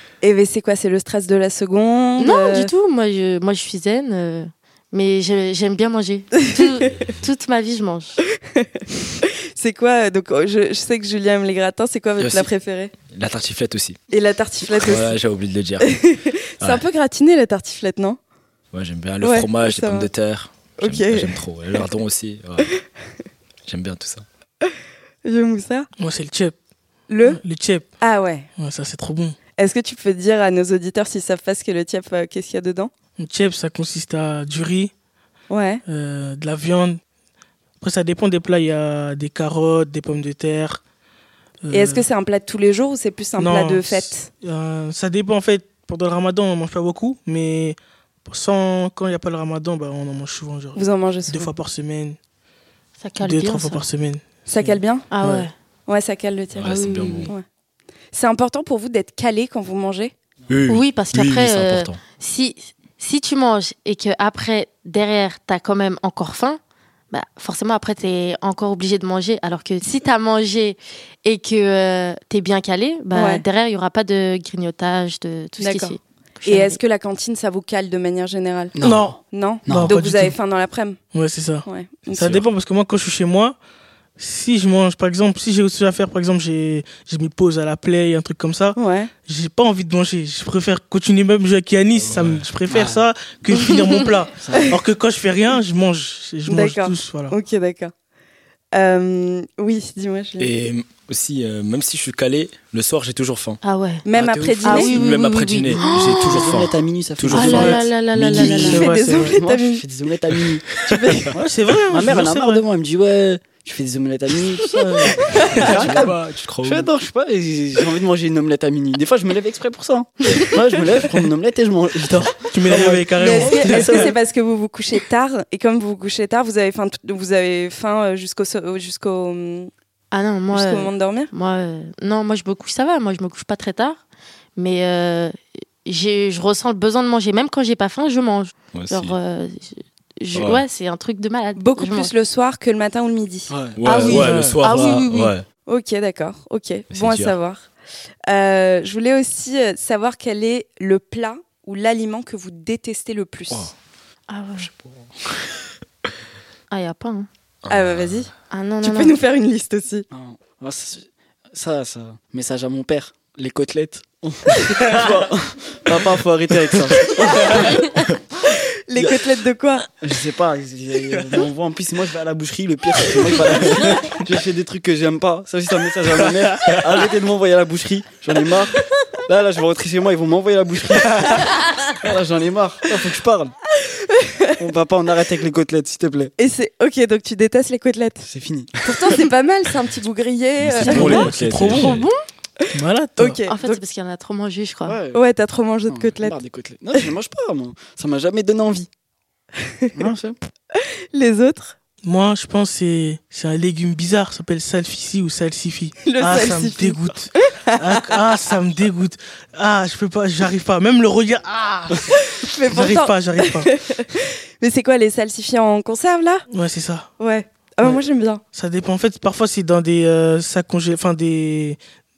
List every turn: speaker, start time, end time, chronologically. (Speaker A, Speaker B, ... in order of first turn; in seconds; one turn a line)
Speaker A: 0.2-2.7
Speaker B: 2.2-8.2
Speaker A: 9.2-12.9
Speaker C: 12.2-12.5
Speaker C: 13.1-14.0
Speaker A: 14.1-15.2
Speaker C: 14.7-16.0
Speaker A: 15.8-18.2
Speaker C: 16.6-16.9
Speaker C: 18.7-22.8
Speaker A: 19.2-20.1
Speaker A: 20.8-21.4
Speaker C: 23.7-24.2
Speaker A: 25.2-25.9
Speaker D: 26.0-26.6
Speaker A: 27.1-27.4
Speaker D: 27.2-27.9
Speaker A: 28.0-28.5
Speaker D: 28.6-29.4
Speaker A: 29.6-32.9
Speaker D: 33.2-34.9
Speaker A: 35.5-35.8
Speaker D: 35.9-37.0
Speaker D: 37.8-40.8
Speaker D: 41.6-42.0
Speaker A: 41.7-44.3
Speaker D: 43.4-52.2
Speaker A: 50.8-51.5
Speaker B: 53.0-53.9
Speaker D: 53.2-55.5
Speaker A: 54.5-55.1
Speaker B: 55.1-55.5
Speaker A: 55.9-56.7
Speaker C: 56.5-57.3
Speaker B: 56.6-57.3
Speaker A: 58.1-60.1
Speaker C: 60.5-62.0
Speaker B: 60.7-66.6
Speaker B: 67.1-76.8
Speaker A: 73.1-73.4
Speaker A: 75.6-81.0
Speaker E: 78.8-80.0
Speaker D: 78.8-80.3
Speaker D: 81.1-81.7
Speaker A: 81.7-82.3
Speaker C: 82.1-82.4
Speaker D: 82.2-83.6
Speaker D: 84.2-97.4
Speaker A: 88.8-89.1
Speaker C: 92.0-92.5
Speaker E: 92.7-93.0
Speaker E: 94.4-94.8
Speaker A: 96.5-97.9
Speaker A: 98.7-100.5
Speaker C: 100.4-103.6
Speaker B: 103.6-104.0
Speaker A: 104.1-105.0
Speaker E: 104.2-104.9
Speaker B: 104.6-106.5
Speaker C: 104.8-108.2
Speaker E: 105.8-107.9
Speaker B: 107.3-108.9
Speaker D: 108.3-109.4
Speaker A: 108.3-109.8
Speaker E: 109.2-111.4
Speaker A: 110.9-111.3
Speaker D: 111.3-112.6
Speaker E: 111.9-124.1
Speaker D: 114.9-115.2
Speaker A: 115.3-115.5
Speaker C: 115.6-116.9
Speaker D: 115.7-116.0
Speaker D: 122.1-124.1
Speaker A: 123.2-129.7
Speaker B: 130.1-134.0
Speaker A: 130.5-131.3
Speaker B: 134.6-142.1
Speaker C: 138.7-139.2
Speaker C: 140.3-140.6
Speaker A: 141.6-143.5
Speaker E: 143.5-144.5
Speaker C: 143.8-145.5
Speaker B: 143.8-145.3
Speaker D: 143.9-144.6
Speaker A: 145.7-147.7
Speaker C: 146.9-147.3
Speaker A: 148.3-153.7
Speaker B: 154.3-154.7
Speaker C: 154.6-155.1
Speaker B: 156.7-157.3
Speaker C: 157.7-158.2
Speaker A: 157.7-160.1
Speaker B: 158.5-159.2
Speaker E: 160.1-167.8
Speaker A: 167.2-167.7
Speaker A: 168.9-169.9
Speaker E: 170.0-183.6
Speaker A: 184.1-184.5
Speaker E: 184.6-186.3
Speaker A: 186.4-188.3
Speaker E: 188.2-188.8
Speaker A: 188.8-191.3
Speaker C: 190.6-192.1
Speaker D: 190.8-192.1
Speaker B: 191.8-192.2
Speaker D: 192.7-193.4
Speaker A: 193.2-193.8
Speaker B: 193.5-195.0
Speaker E: 194.9-195.2
Speaker A: 195.1-196.4
Speaker E: 195.9-198.9
Speaker A: 199.6-199.9
Speaker E: 199.9-200.4
Speaker A: 200.8-201.8
Speaker D: 202.0-213.7
Speaker A: 206.0-208.1
Speaker A: 212.2-216.5
Speaker D: 216.5-217.1
Speaker A: 217.2-218.4
Speaker D: 218.5-221.8